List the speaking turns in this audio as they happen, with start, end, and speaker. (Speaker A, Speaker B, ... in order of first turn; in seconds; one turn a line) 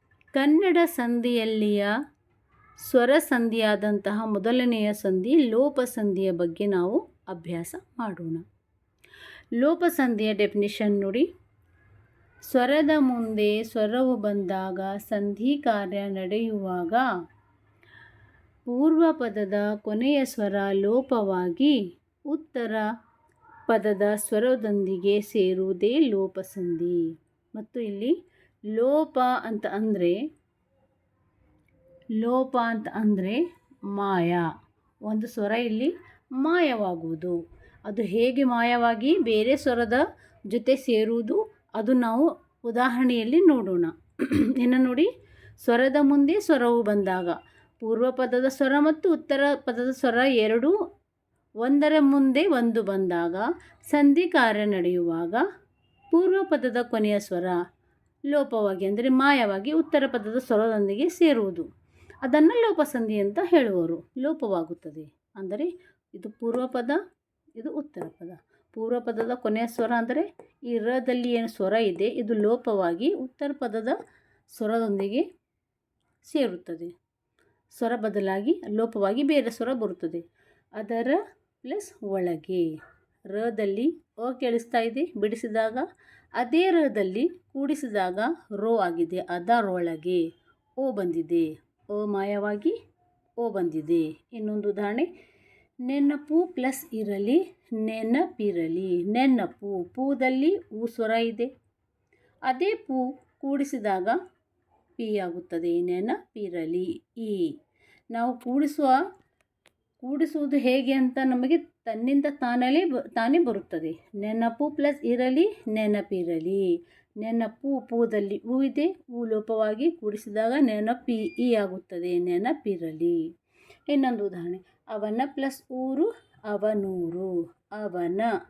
Speaker A: 0.3-1.9
Speaker A: 2.9-8.4
Speaker A: 9.6-11.3
Speaker A: 12.5-17.1
Speaker A: 18.7-21.8
Speaker A: 22.3-22.9
Speaker A: 23.7-28.1
Speaker A: 28.7-30.2
Speaker A: 32.2-33.4
Speaker A: 33.9-34.5
Speaker A: 35.0-45.1
Speaker A: 45.6-50.7
Speaker A: 51.6-55.4
Speaker A: 56.1-57.6
Speaker A: 58.3-61.7
Speaker A: 62.2-67.0
Speaker A: 67.6-74.0
Speaker A: 74.5-75.3
Speaker A: 76.2-76.9
Speaker A: 77.8-80.2
Speaker A: 80.8-82.7
Speaker A: 83.3-85.9
Speaker A: 86.4-90.2
Speaker A: 90.8-92.8
Speaker A: 93.4-95.1
Speaker A: 95.9-101.5
Speaker A: 102.5-104.2
Speaker A: 105.0-107.5
Speaker A: 108.1-109.0
Speaker A: 110.0-116.7
Speaker A: 117.2-123.2
Speaker A: 123.9-128.3